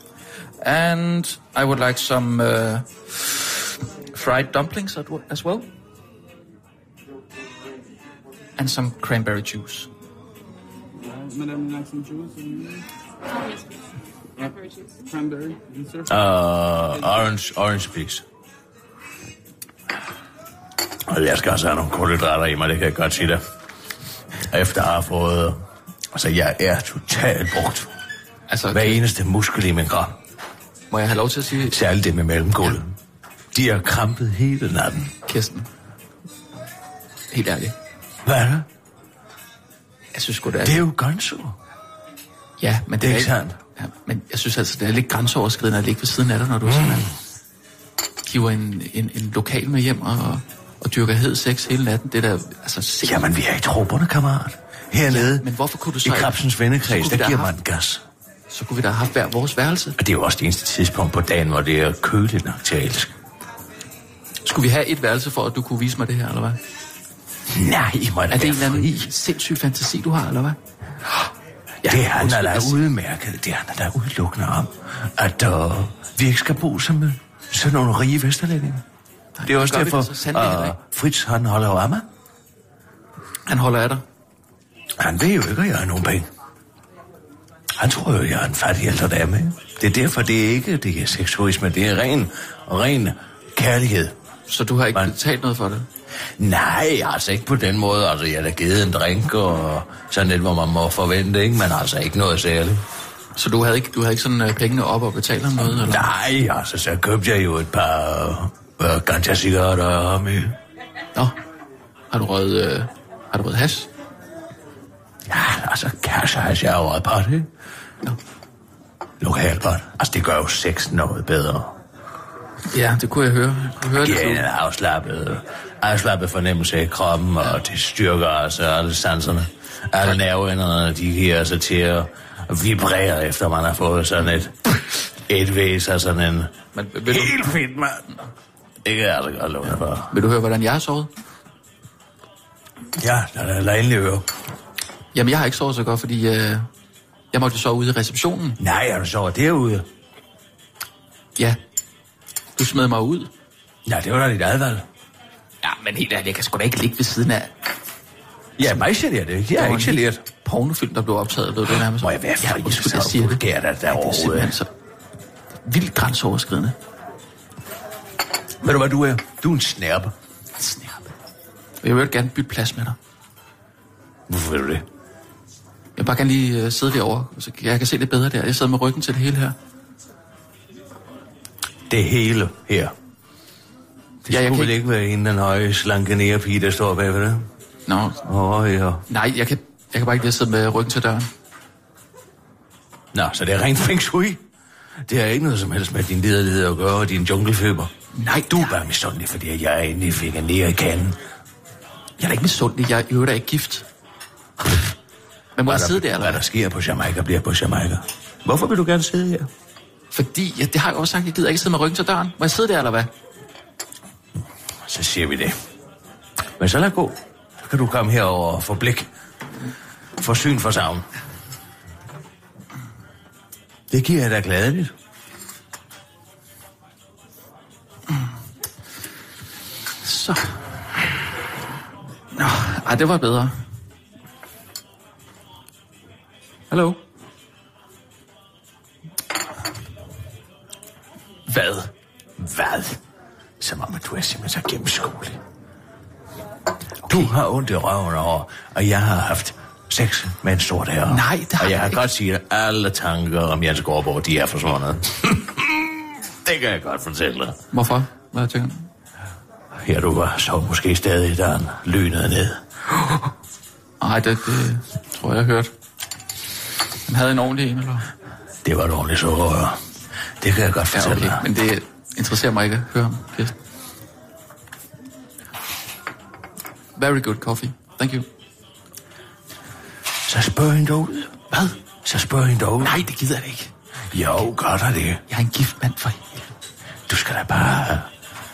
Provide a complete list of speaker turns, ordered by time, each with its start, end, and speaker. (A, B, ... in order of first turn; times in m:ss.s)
0:00.6-0:03.5 A
0:04.1-0:05.7 A
0:08.6-0:09.9 A
0:11.0-0:12.8 B
0:14.4-0:16.3 B
0:16.1-0:18.2 C
0:16.9-0:17.3 B
0:21.1-0:23.4 C
0:24.5-0:25.6 C
0:26.1-0:27.9 C
0:28.5-0:29.0 A
0:28.7-0:30.2 C
0:30.9-0:31.8 A
0:31.7-0:32.9 C
0:33.5-0:35.1 C
0:35.2-0:35.7 A
0:37.3-0:37.7 A
0:38.2-0:38.6 C
0:40.1-0:40.8 A
0:40.6-0:41.6 C
0:42.6-0:47.1 A
0:43.0-0:43.6 C
0:46.7-0:47.0 C
0:48.2-0:53.2 A
0:53.0-0:55.4 C
0:55.1-0:57.5 A
0:56.0-0:58.0 C
0:58.5-1:00.0 A
1:00.0-1:03.1 C
1:04.4-1:06.6 A
1:07.5-1:09.1 C
1:08.3-1:10.6 A
1:11.8-1:12.8 A
1:11.8-1:18.8 C
1:19.4-1:20.8 A
1:19.4-1:22.0 C
1:23.5-1:24.0 A
1:25.0-1:26.3 C
1:27.8-1:34.1 C
1:34.5-1:35.9 A
1:36.4-1:42.8 C
1:43.4-1:46.0 A
1:45.6-1:50.6 C
1:52.1-1:53.9 A
1:55.3-1:57.5 C
1:59.2-2:01.7 C
2:02.7-2:04.4 A
2:04.0-2:14.6 C
2:15.3-2:16.5 C
2:16.7-2:17.4 A
2:17.1-2:18.0 C
2:18.8-2:20.1 C
2:20.1-2:21.1 A
2:23.0-2:24.3 C
2:25.1-2:26.7 A
2:27.3-2:28.6 A
2:28.6-2:29.8 C
2:32.6-2:33.3 A
2:33.8-2:34.8 C
2:35.6-2:37.5 A
2:38.6-2:40.2 C
2:39.5-2:44.7 A
2:42.0-2:44.6 C
2:45.6-2:46.8 A
2:48.6-2:50.1 C
2:50.6-2:51.1 A
2:51.8-2:53.0 A
2:54.3-2:54.8 C
2:56.0-2:59.6 A
3:01.9-3:02.9 C
3:04.2-3:07.5 C
3:04.3-3:04.7 A
3:07.9-3:08.2 A
3:08.2-3:09.0 C
3:09.1-3:11.3 A
3:13.1-3:14.4 C
3:15.1-3:17.9 C
3:18.1-3:18.8 A
3:18.5-3:21.2 C
3:22.2-3:23.8 A
3:25.6-3:26.4 A
3:25.6-3:29.5 C
3:30.1-3:33.1 A
3:34.8-3:35.6 C
3:36.6-3:39.1 C
3:40.2-3:41.0 C
3:43.9-3:44.9 C
3:50.0-3:50.5 A
3:52.3-3:53.6 A
3:56.7-3:57.0 A
4:01.5-4:01.9 A
4:02.4-4:03.0 C
4:03.6-4:05.4 C
4:07.1-4:07.3 A
4:07.1-4:17.6 C
4:11.1-4:12.0 A
4:17.7-4:18.9 A
4:19.8-4:22.6 C
4:24.0-4:25.7 A
4:27.0-4:28.1 A
4:28.6-4:29.8 C
4:30.4-4:31.4 C
4:30.9-4:33.5 A
4:37.0-4:38.3 A
4:40.2-4:41.4 C
4:41.5-4:41.8 A
4:42.0-4:43.0 C
4:42.8-4:43.7 A
4:44.1-4:45.2 C
4:45.3-4:46.4 A
4:47.1-4:48.1 C